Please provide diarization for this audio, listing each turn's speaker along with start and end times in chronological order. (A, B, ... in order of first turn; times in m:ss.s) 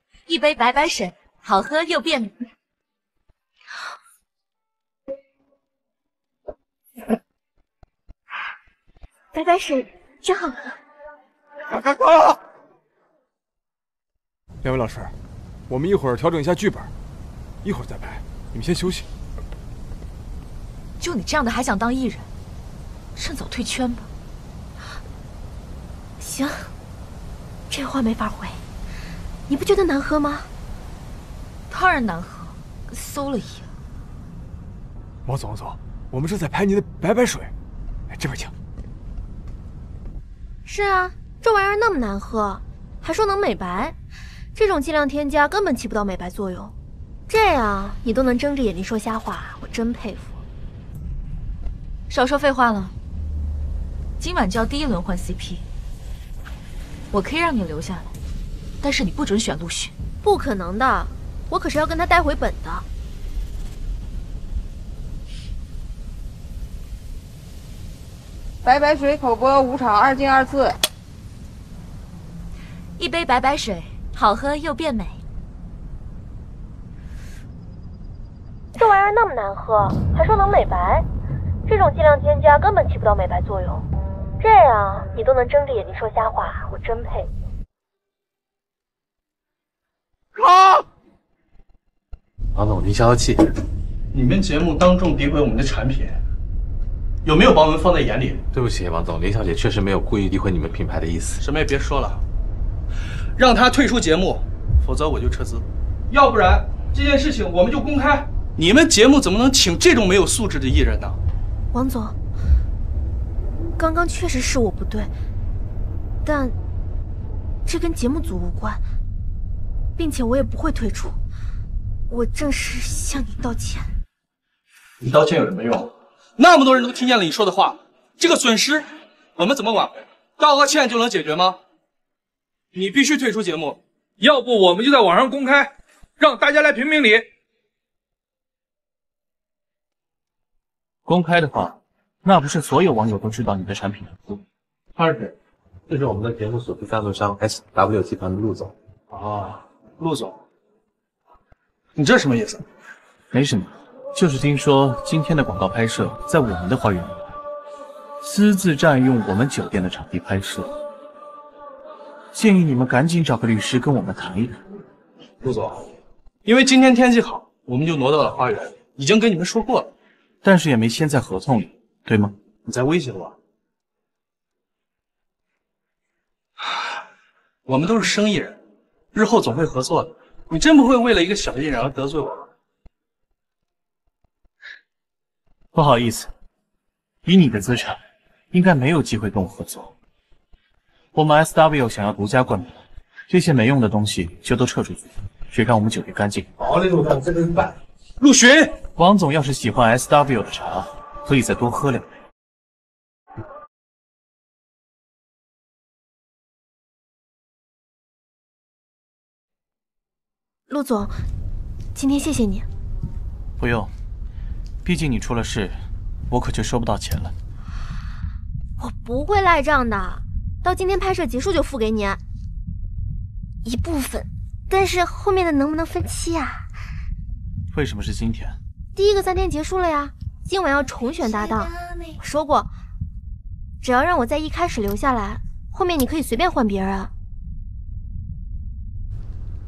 0:00.3-0:02.3 A
0:09.3-0:10.8 B
0:11.7-0:12.4 C
0:14.6-0:15.1 C
0:15.7-0:16.9 C
0:17.6-0:19.0 C
0:21.0-0:22.3 A
0:23.2-0:24.1 A
0:26.2-0:26.7 B
0:27.7-0:28.6 B
0:29.5-0:30.5 B
0:31.7-0:33.7 A
0:35.2-0:37.5 C
0:38.1-0:38.5 C
0:40.6-0:44.0 B
0:44.5-0:46.7 B
0:47.3-0:50.4 B
0:52.1-0:52.9 A
0:54.2-0:55.6 A
0:57.1-0:58.1 A
0:58.8-0:59.9 A
1:00.2-1:02.8 B
1:08.6-1:10.7 D
1:13.0-1:15.2 A
1:18.8-1:21.0 B
1:21.7-1:23.8 B
1:24.4-1:27.3 B
1:32.5-1:33.5 E
1:34.1-1:36.2 F
1:37.2-1:38.4 F
1:38.5-1:41.4 E
1:41.4-1:42.2 F
1:43.4-1:51.2 F
1:51.7-1:52.1 B
1:53.8-1:55.1 B
1:56.2-1:56.6 B
1:57.6-1:58.8 B
2:00.0-2:01.2 B
2:02.1-2:03.9 B
2:05.0-2:11.6 F
2:12.7-2:17.2 F
2:21.0-2:24.2 G
2:25.0-2:25.3 F
2:25.9-2:28.7 E
2:29.1-2:30.4 F
2:32.0-2:32.6 F
2:33.3-2:37.3 G
2:38.2-2:40.7 G
2:42.3-2:44.6 G
2:45.4-2:45.9 F
2:46.4-2:49.9 F
2:50.4-2:52.4 G
2:52.6-2:53.4 F
2:57.6-2:58.6 F
2:59.1-3:02.5 F
3:05.7-3:06.3 G
3:07.2-3:08.0 G
3:08.5-3:09.9 G
3:11.1-3:16.5 G
3:16.6-3:17.6 F
3:18.2-3:18.8 F
3:18.9-3:22.1 G
3:30.7-3:31.2 B
3:31.9-3:32.7 B
3:33.6-3:33.9 G
3:34.8-3:37.3 G
3:38.8-3:42.2 B
3:43.6-3:46.7 B
3:47.7-3:48.6 G
3:49.0-3:52.7 B
3:53.8-3:57.1 B